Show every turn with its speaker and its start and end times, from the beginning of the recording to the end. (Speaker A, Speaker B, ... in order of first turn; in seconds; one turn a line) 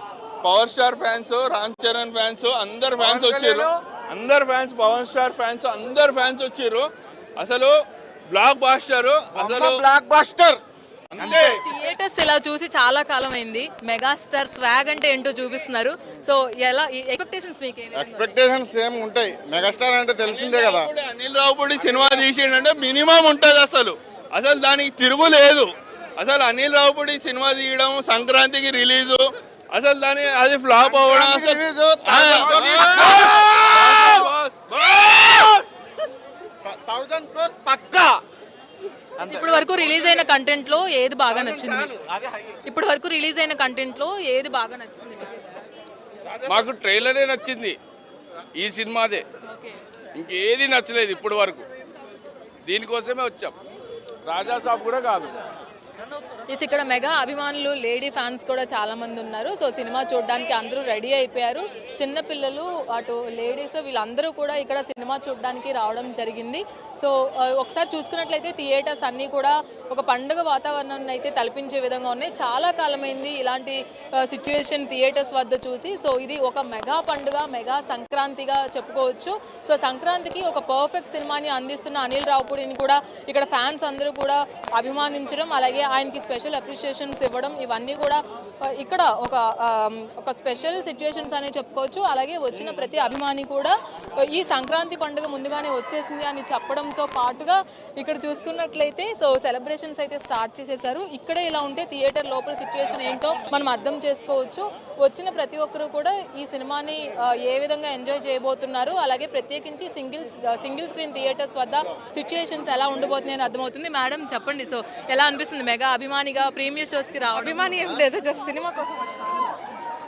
Speaker A: 0.4-7.7
Speaker B: 3.0-3.8
Speaker A: 8.3-9.8
Speaker C: 9.3-10.6
Speaker A: 11.1-11.6
Speaker D: 11.2-18.4
Speaker C: 11.2-11.6
Speaker C: 17.9-20.9
Speaker A: 20.2-34.7
Speaker C: 21.8-22.2
Speaker C: 30.8-34.0
Speaker B: 32.0-33.3
Speaker C: 36.6-38.2
Speaker C: 39.2-39.7
Speaker D: 39.2-41.9
Speaker C: 41.3-42.6
Speaker D: 42.6-45.4
Speaker B: 46.4-47.8
Speaker B: 48.5-49.2
Speaker D: 49.4-49.8
Speaker B: 50.1-51.6
Speaker B: 52.6-53.5
Speaker B: 54.2-55.3
Speaker D: 56.5-118.0
Speaker E: 117.3-119.3